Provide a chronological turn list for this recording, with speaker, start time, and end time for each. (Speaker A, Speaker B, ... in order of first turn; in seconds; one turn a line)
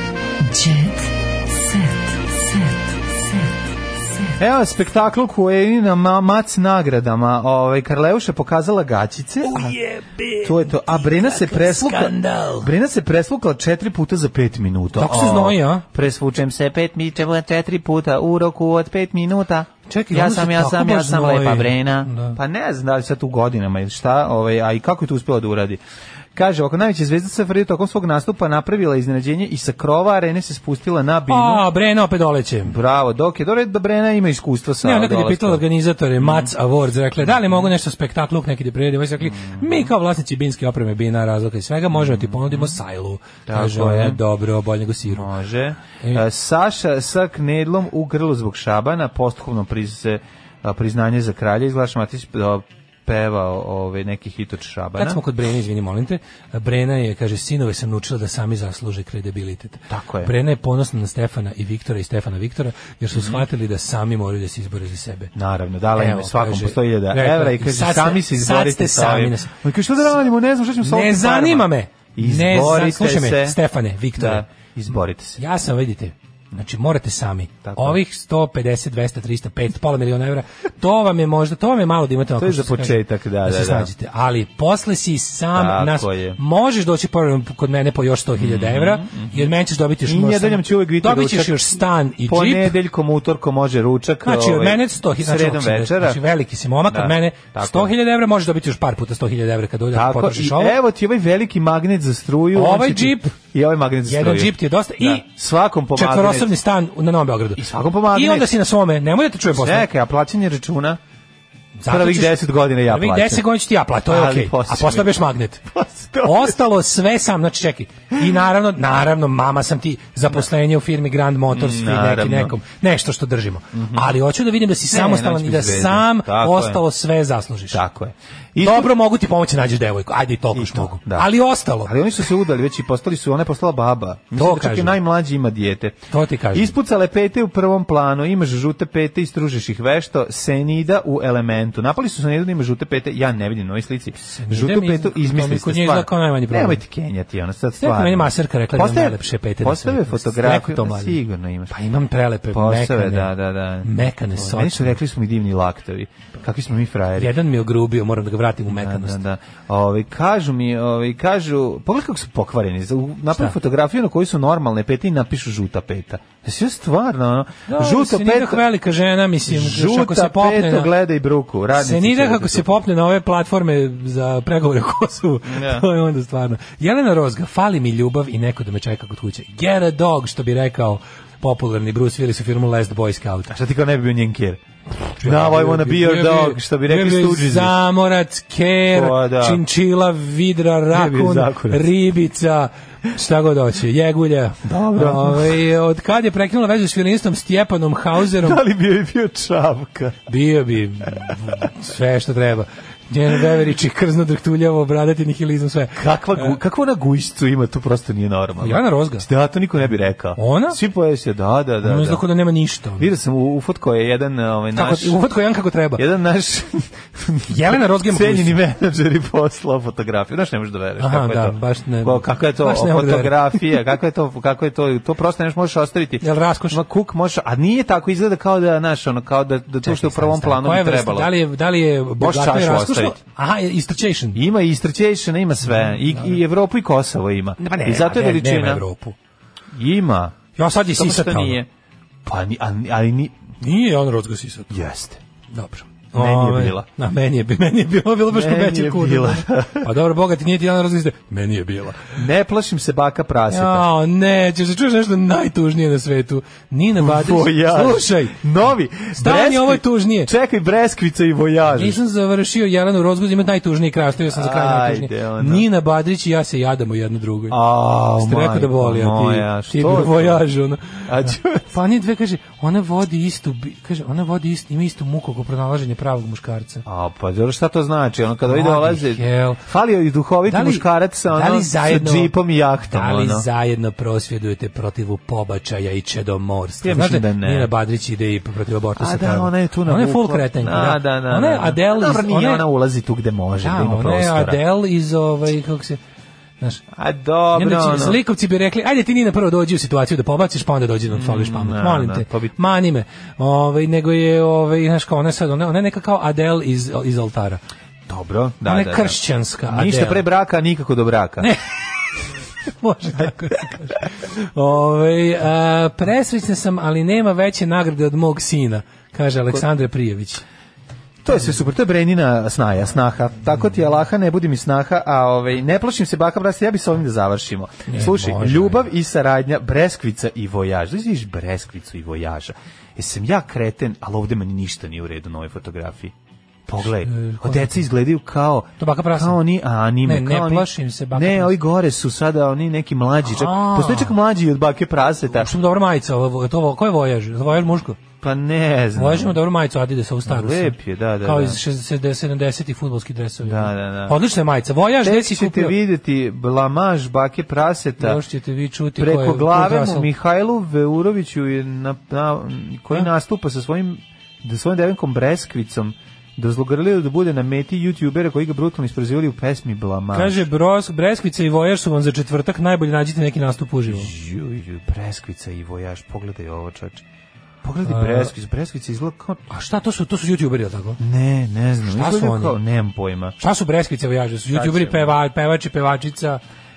Speaker A: 0.4-4.4
Speaker B: 4.4-9.8
Speaker C: 9.4-12.7
Speaker B: 10.4-25.8
Speaker C: 15.0-15.8
Speaker C: 19.9-22.4
Speaker B: 26.4-31.6
Speaker C: 31.3-32.8
Speaker B: 32.7-35.6
Speaker C: 34.8-45.3
Speaker B: 36.2-36.5
Speaker B: 37.2-37.7
Speaker B: 39.2-39.9
Speaker B: 41.9-42.8
Speaker B: 43.5-44.2
Speaker B: 45.1-55.2
Speaker C: 46.0-46.2
Speaker C: 55.0-65.3
Speaker B: 59.9-60.3
Speaker B: 63.1-63.5
Speaker B: 65.3-73.6
Speaker C: 66.0-69.5
Speaker C: 70.8-74.4
Speaker B: 74.2-75.4
Speaker C: 75.4-92.7
Speaker B: 77.6-78.0
Speaker B: 82.4-83.9
Speaker B: 85.5-86.4
Speaker B: 88.4-89.5
Speaker B: 90.1-96.2
Speaker C: 94.2-100.8
Speaker B: 96.9-97.9
Speaker B: 99.9-106.5
Speaker C: 102.5-103.3
Speaker C: 104.1-105.3
Speaker C: 105.9-109.9
Speaker B: 107.6-108.5
Speaker B: 109.5-111.0
Speaker C: 111.8-115.7
Speaker B: 111.9-113.5
Speaker B: 114.1-116.6
Speaker C: 116.2-127.8
Speaker B: 121.5-122.6
Speaker B: 123.7-124.2
Speaker B: 124.9-126.8
Speaker B: 127.7-128.9
Speaker C: 128.6-131.9
Speaker B: 130.5-131.3
Speaker B: 131.8-136.0
Speaker C: 134.3-135.0
Speaker C: 136.1-136.7
Speaker B: 136.5-151.8
Speaker C: 144.2-146.8
Speaker C: 147.8-155.0
Speaker B: 152.5-157.3
Speaker C: 157.2-159.2
Speaker B: 158.7-168.6
Speaker C: 167.7-170.9
Speaker B: 169.5-172.8
Speaker C: 171.8-183.5
Speaker B: 175.4-175.9
Speaker B: 183.5-184.6
Speaker B: 185.2-187.8
Speaker C: 185.2-198.6
Speaker B: 188.9-189.6
Speaker B: 190.9-191.9
Speaker B: 194.6-195.6
Speaker B: 198.2-200.2
Speaker C: 200.3-206.6
Speaker B: 206.0-212.2
Speaker C: 208.6-209.3
Speaker C: 210.4-210.8
Speaker C: 211.8-213.1
Speaker B: 213.0-215.2
Speaker C: 214.7-216.0
Speaker B: 216.0-231.3
Speaker C: 217.5-218.6
Speaker C: 221.0-223.8
Speaker C: 226.2-226.8
Speaker C: 229.9-234.4
Speaker B: 232.2-233.2
Speaker B: 234.3-238.9
Speaker C: 235.7-236.4
Speaker C: 237.6-239.2
Speaker B: 239.7-241.7
Speaker C: 240.6-241.6
Speaker B: 242.2-243.4
Speaker C: 243.6-244.8
Speaker B: 244.7-245.2
Speaker C: 245.5-252.1
Speaker B: 246.1-246.9
Speaker B: 248.3-249.9
Speaker B: 252.1-253.9
Speaker C: 253.5-258.4
Speaker B: 257.0-262.0
Speaker C: 259.1-260.3
Speaker C: 261.7-267.6
Speaker B: 264.3-265.7
Speaker B: 267.5-270.4
Speaker C: 268.2-276.9
Speaker B: 271.1-271.7
Speaker B: 276.9-283.5
Speaker C: 278.5-279.6
Speaker C: 280.5-282.3
Speaker C: 282.9-292.7
Speaker B: 286.8-287.7
Speaker B: 289.0-294.6
Speaker C: 293.6-296.0
Speaker B: 296.9-298.2
Speaker C: 297.5-307.6
Speaker B: 301.1-302.6
Speaker B: 308.1-311.5
Speaker C: 308.6-310.3
Speaker C: 312.8-320.4
Speaker B: 321.2-336.1
Speaker C: 327.9-328.9
Speaker B: 336.7-345.5
Speaker C: 337.0-337.9
Speaker C: 338.8-339.4
Speaker C: 340.0-341.6
Speaker C: 343.2-344.2
Speaker C: 345.3-348.0
Speaker B: 348.2-349.4
Speaker C: 349.0-355.8
Speaker B: 350.2-351.6
Speaker B: 353.4-354.2
Speaker B: 355.0-358.2
Speaker C: 358.0-360.1
Speaker B: 359.0-370.4
Speaker C: 370.1-374.1
Speaker B: 373.9-377.0
Speaker B: 377.6-379.4
Speaker C: 377.9-378.3
Speaker C: 379.5-381.0
Speaker B: 381.0-383.4
Speaker C: 381.9-382.6
Speaker C: 383.4-386.4
Speaker B: 384.5-385.2